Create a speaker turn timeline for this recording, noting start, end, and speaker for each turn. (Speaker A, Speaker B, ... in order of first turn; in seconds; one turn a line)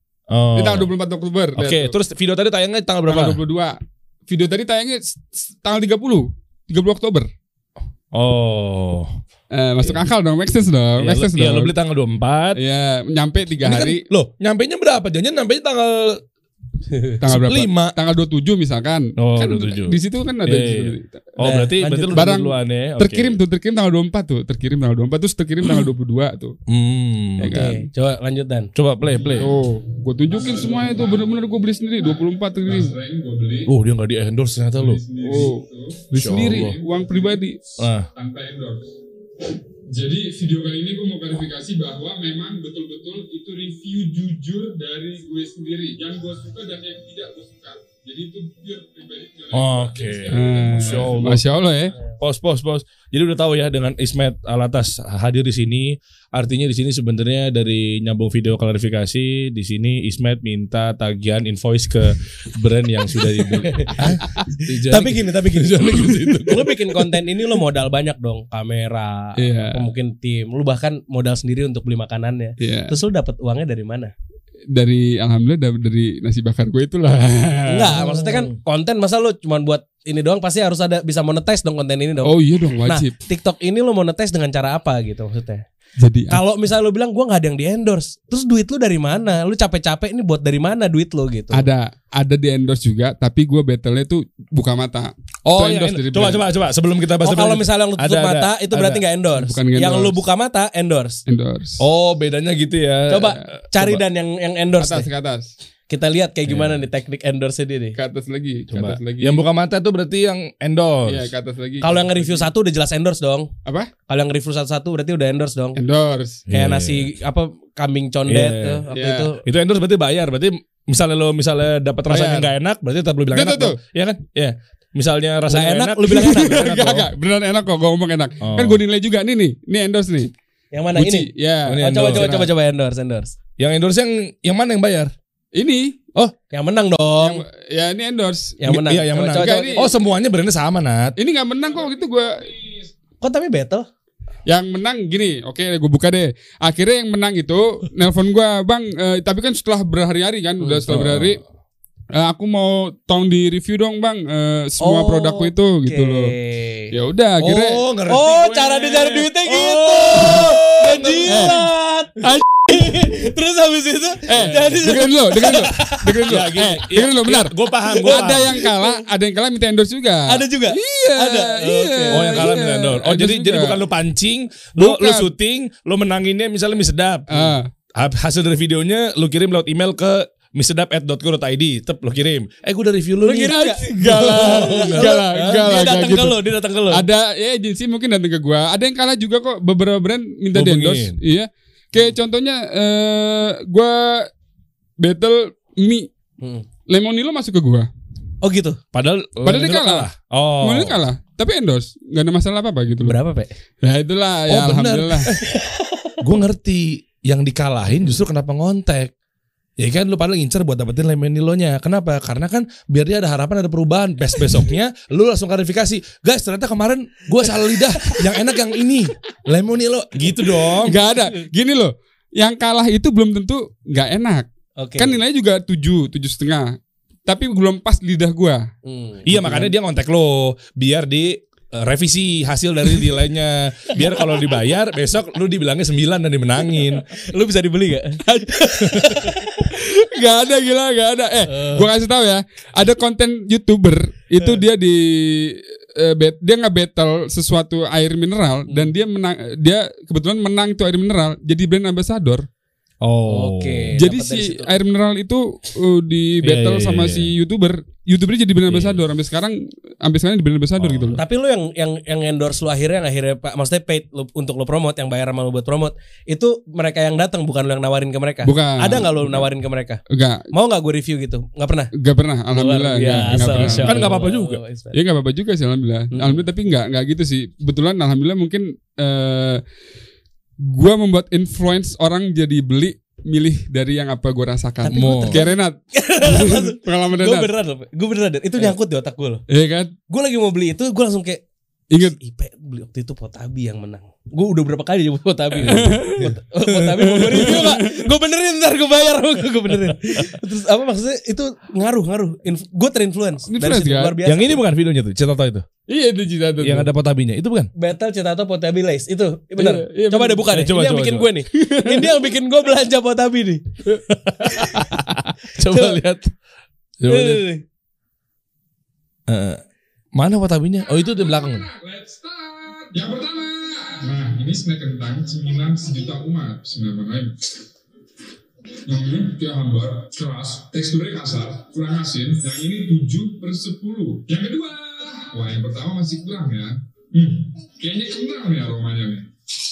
Speaker A: 0.3-0.9
Speaker B: 0.5-1.9
Speaker A: 1.6-3.4
Speaker B: 3.1-7.3
Speaker A: 8.1-9.2
Speaker B: 9.5-11.7
Speaker A: 11.0-12.6
Speaker B: 12.6-14.0
Speaker A: 13.6-16.2
Speaker C: 16.9-17.2
Speaker B: 17.2-21.2
Speaker A: 17.2-17.9
Speaker A: 19.2-23.4
Speaker C: 21.4-22.4
Speaker B: 22.1-26.5
Speaker A: 26.7-27.5
Speaker C: 27.4-28.7
Speaker B: 27.4-27.9
Speaker A: 28.7-29.5
Speaker B: 29.3-32.9
Speaker D: 30.3-31.4
Speaker D: 32.6-33.7
Speaker A: 33.6-35.0
Speaker D: 34.8-39.0
Speaker B: 35.2-35.6
Speaker B: 36.1-37.6
Speaker A: 36.1-36.8
Speaker A: 37.8-38.1
Speaker D: 39.9-51.4
Speaker A: 49.5-51.4
Speaker B: 50.2-51.9
Speaker A: 52.2-67.1
Speaker C: 63.6-64.0
Speaker C: 64.9-74.1
Speaker B: 69.3-69.9
Speaker B: 72.6-72.9
Speaker B: 74.7-78.4
Speaker C: 77.7-85.6
Speaker B: 82.2-83.2
Speaker B: 86.0-86.4
Speaker C: 86.3-91.7
Speaker B: 91.5-96.5
Speaker A: 95.4-99.0
Speaker C: 97.2-101.2
Speaker B: 99.3-100.2
Speaker B: 101.3-101.8
Speaker A: 101.8-104.0
Speaker C: 103.1-105.1
Speaker B: 104.8-105.5
Speaker C: 105.9-108.0
Speaker A: 106.5-106.8
Speaker B: 107.9-109.4
Speaker A: 108.7-111.3
Speaker B: 111.0-112.5
Speaker C: 111.8-113.5
Speaker B: 113.6-113.9
Speaker C: 114.1-115.8
Speaker B: 115.8-116.5
Speaker A: 116.5-117.1
Speaker C: 116.5-119.4
Speaker A: 118.3-118.8
Speaker B: 118.9-119.3
Speaker A: 119.4-127.0
Speaker B: 122.1-122.5
Speaker B: 123.3-123.8
Speaker C: 125.5-127.0
Speaker B: 126.0-130.3
Speaker A: 128.4-128.8
Speaker C: 130.7-133.3
Speaker B: 130.9-132.4
Speaker A: 131.7-132.5
Speaker A: 133.6-135.1
Speaker B: 135.5-135.9
Speaker C: 136.5-137.4
Speaker B: 137.2-138.6
Speaker C: 138.6-139.9
Speaker A: 138.7-141.2
Speaker B: 139.2-139.9
Speaker B: 141.2-142.5
Speaker D: 141.9-142.9
Speaker C: 143.2-143.9
Speaker B: 144.5-151.4
Speaker A: 150.9-151.4
Speaker B: 152.1-156.3
Speaker C: 154.8-156.9
Speaker B: 156.9-157.8
Speaker A: 157.4-161.7
Speaker C: 158.1-162.2
Speaker B: 161.3-161.6
Speaker B: 162.2-163.0
Speaker C: 162.7-166.4
Speaker B: 164.2-173.8
Speaker A: 164.3-164.6
Speaker A: 166.2-168.6
Speaker C: 167.9-169.0
Speaker C: 170.3-172.5
Speaker A: 172.1-185.6
Speaker B: 174.8-175.3
Speaker B: 177.3-177.7
Speaker C: 183.2-187.1
Speaker B: 183.5-194.3
Speaker A: 190.5-191.2
Speaker B: 195.0-196.1
Speaker B: 196.9-197.9
Speaker C: 198.4-198.8
Speaker A: 198.9-201.0
Speaker B: 199.4-200.1
Speaker B: 200.6-203.2
Speaker C: 203.0-203.5
Speaker B: 203.8-205.3
Speaker A: 204.5-205.4
Speaker C: 205.3-206.2
Speaker A: 206.2-209.1
Speaker A: 209.8-221.0
Speaker C: 218.0-218.2
Speaker B: 220.8-228.7
Speaker C: 224.8-225.2
Speaker C: 228.8-229.7
Speaker A: 229.2-237.1
Speaker C: 234.0-234.4
Speaker C: 236.7-239.7
Speaker B: 238.3-238.6
Speaker B: 239.6-252.5
Speaker C: 241.5-241.8
Speaker A: 253.0-253.9
Speaker C: 253.3-254.8
Speaker B: 253.9-261.2
Speaker A: 256.4-257.3
Speaker A: 258.7-259.0
Speaker A: 260.8-261.2
Speaker C: 261.2-271.9
Speaker B: 268.4-269.5
Speaker B: 270.1-270.5
Speaker B: 271.9-274.2
Speaker C: 272.5-274.9
Speaker A: 273.1-274.6
Speaker B: 274.9-279.6
Speaker C: 276.1-276.4
Speaker B: 280.6-287.5
Speaker C: 284.8-289.4
Speaker A: 284.9-285.4
Speaker B: 289.5-289.9
Speaker C: 290.1-291.4
Speaker B: 291.9-292.2
Speaker C: 292.0-304.6
Speaker B: 295.6-296.3
Speaker B: 296.9-298.1
Speaker B: 303.5-304.2
Speaker A: 304.2-305.6
Speaker B: 305.9-306.9
Speaker A: 306.6-307.7
Speaker C: 307.8-313.6
Speaker B: 309.6-310.5
Speaker A: 310.5-311.3
Speaker B: 311.5-312.2
Speaker A: 314.2-314.8
Speaker C: 314.4-314.8
Speaker A: 315.5-316.3
Speaker C: 315.7-316.0
Speaker A: 317.0-317.4
Speaker C: 317.1-317.6
Speaker A: 319.3-319.6
Speaker A: 320.1-321.7
Speaker D: 321.0-327.3
Speaker D: 328.8-339.3